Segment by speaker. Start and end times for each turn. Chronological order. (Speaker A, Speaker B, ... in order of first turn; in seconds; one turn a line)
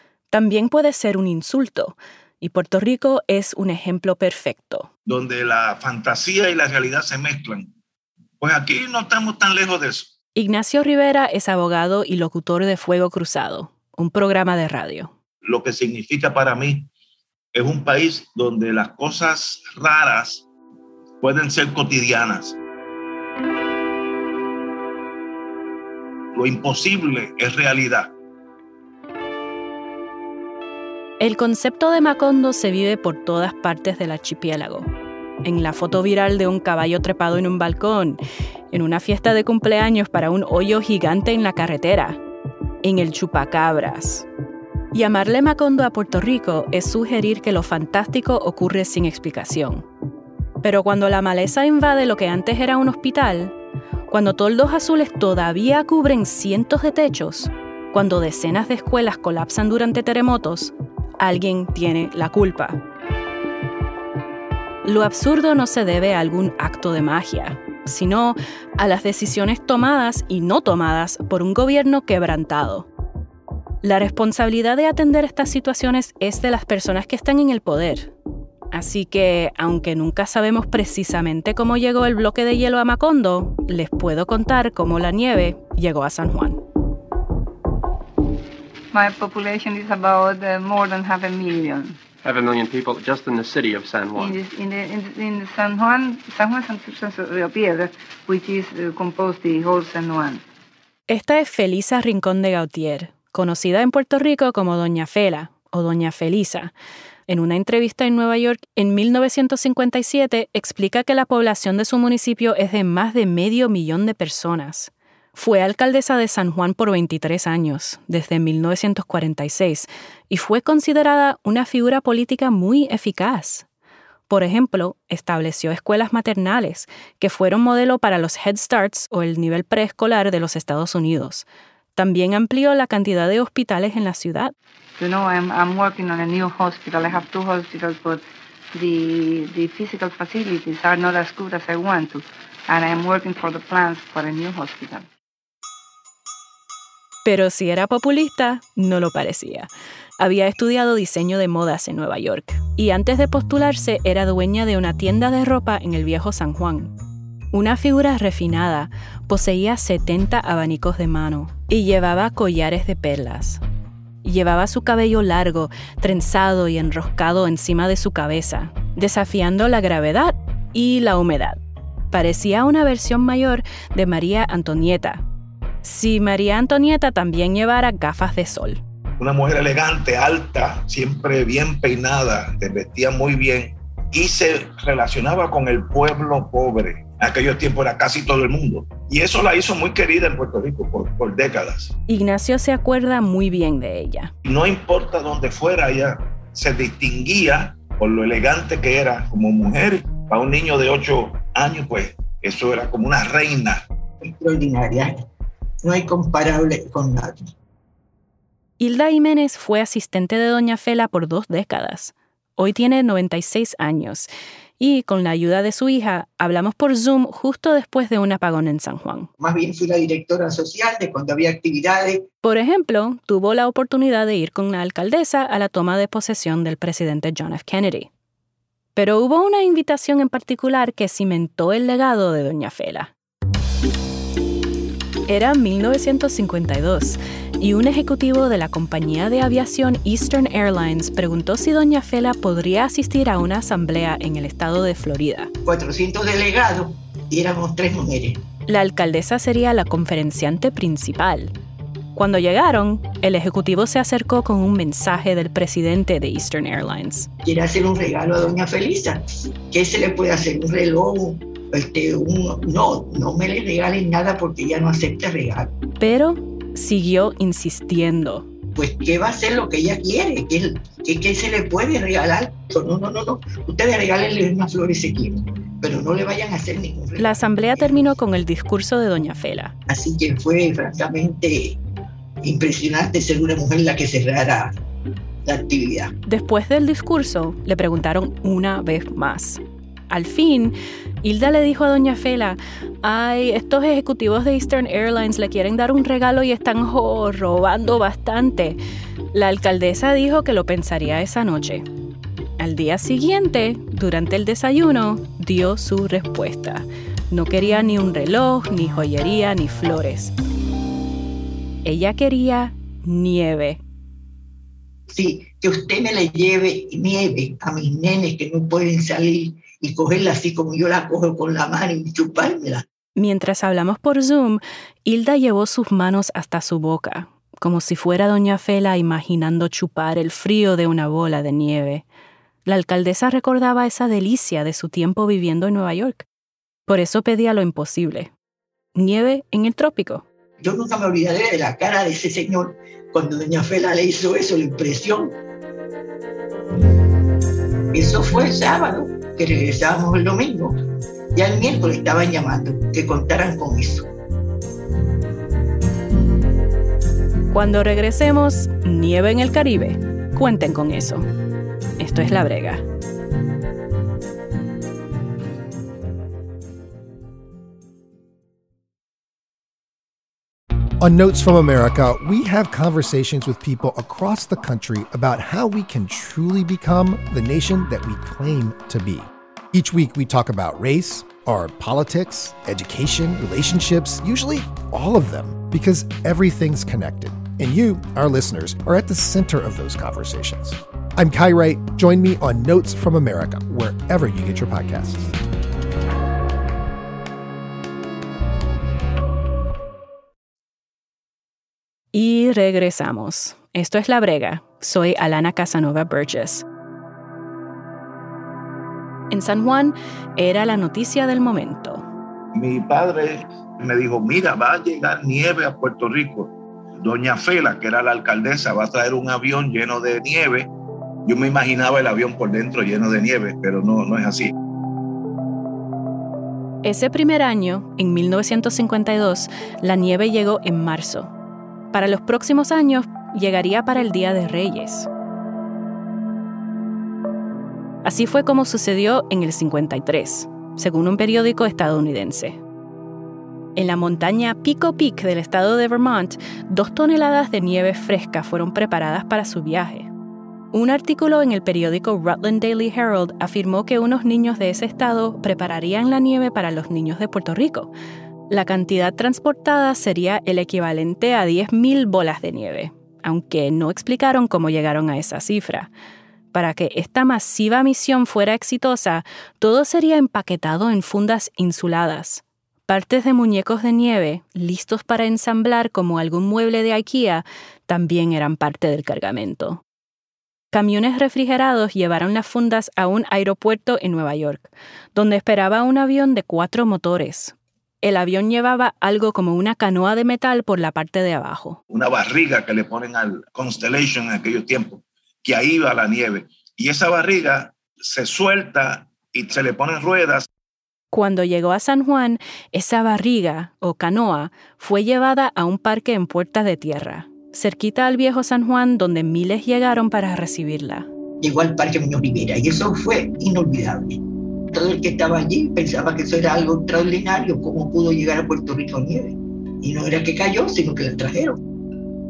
Speaker A: 0.3-4.9
Speaker B: 5.0-7.7
Speaker B: 8.4-10.1
Speaker A: 10.3-15.1
Speaker B: 15.4-16.9
Speaker B: 17.5-20.4
Speaker B: 21.2-22.6
Speaker B: 26.3-28.1
Speaker A: 31.2-34.9
Speaker A: 35.4-38.2
Speaker A: 38.7-42.2
Speaker A: 42.8-44.3
Speaker A: 44.9-49.9
Speaker A: 50.6-53.5
Speaker A: 54.1-62.8
Speaker A: 64.8-72.9
Speaker A: 73.8-78.1
Speaker A: 78.7-86.6
Speaker C: 88.9-92.0
Speaker D: 92.2-94.4
Speaker C: 94.1-100.4
Speaker A: 101.1-106.7
Speaker A: 107.3-123.7
Speaker A: 124.3-134.5
Speaker C: 135.0-145.1
Speaker A: 147.2-156.9
Speaker A: 157.5-163.6
Speaker A: 164.2-171.6
Speaker A: 172.1-175.2
Speaker A: 175.8-178.8
Speaker B: 179.2-191.9
Speaker A: 192.1-194.3
Speaker B: 194.4-203.8
Speaker E: 204.2-205.2
Speaker E: 205.8-207.5
Speaker A: 208.8-219.3
Speaker E: 219.4-222.3
Speaker A: 222.4-228.1
Speaker A: 228.9-233.1
Speaker A: 235.3-245.5
Speaker E: 245.6-248.4
Speaker A: 248.7-251.5
Speaker A: 252.1-257.3
Speaker E: 257.4-265.7
Speaker A: 266.0-268.5
Speaker E: 268.7-278.0
Speaker A: 277.2-279.7
Speaker E: 279.9-281.8
Speaker E: 282.4-284.7
Speaker E: 285.4-286.1
Speaker A: 286.3-298.8
Speaker A: 299.3-301.9
Speaker A: 302.6-310.3
Speaker A: 311.8-313.8
Speaker E: 315.1-322.8
Speaker A: 323.1-332.0
Speaker A: 332.6-336.3
Speaker A: 336.9-338.3
Speaker A: 338.9-340.2
Speaker E: 340.6-345.4
Speaker E: 347.9-350.8
Speaker E: 351.3-354.1
Speaker A: 357.5-361.2
Speaker A: 362.0-362.8
Speaker F: 371.0-395.3
Speaker A: 402.1-406.6
Speaker A: 409.3-412.0
Speaker B: 412.5-420.7
Speaker B: 421.2-424.5
Speaker A: 426.8-431.3
Speaker A: 431.9-435.1
Speaker A: 438.0-442.6
Speaker A: 443.8-450.1
Speaker A: 450.7-457.9
Speaker A: 458.5-465.9
Speaker A: 466.5-479.8
Speaker A: 480.7-491.8
Speaker B: 491.9-500.5
Speaker A: 501.1-511.1
Speaker E: 511.4-521.6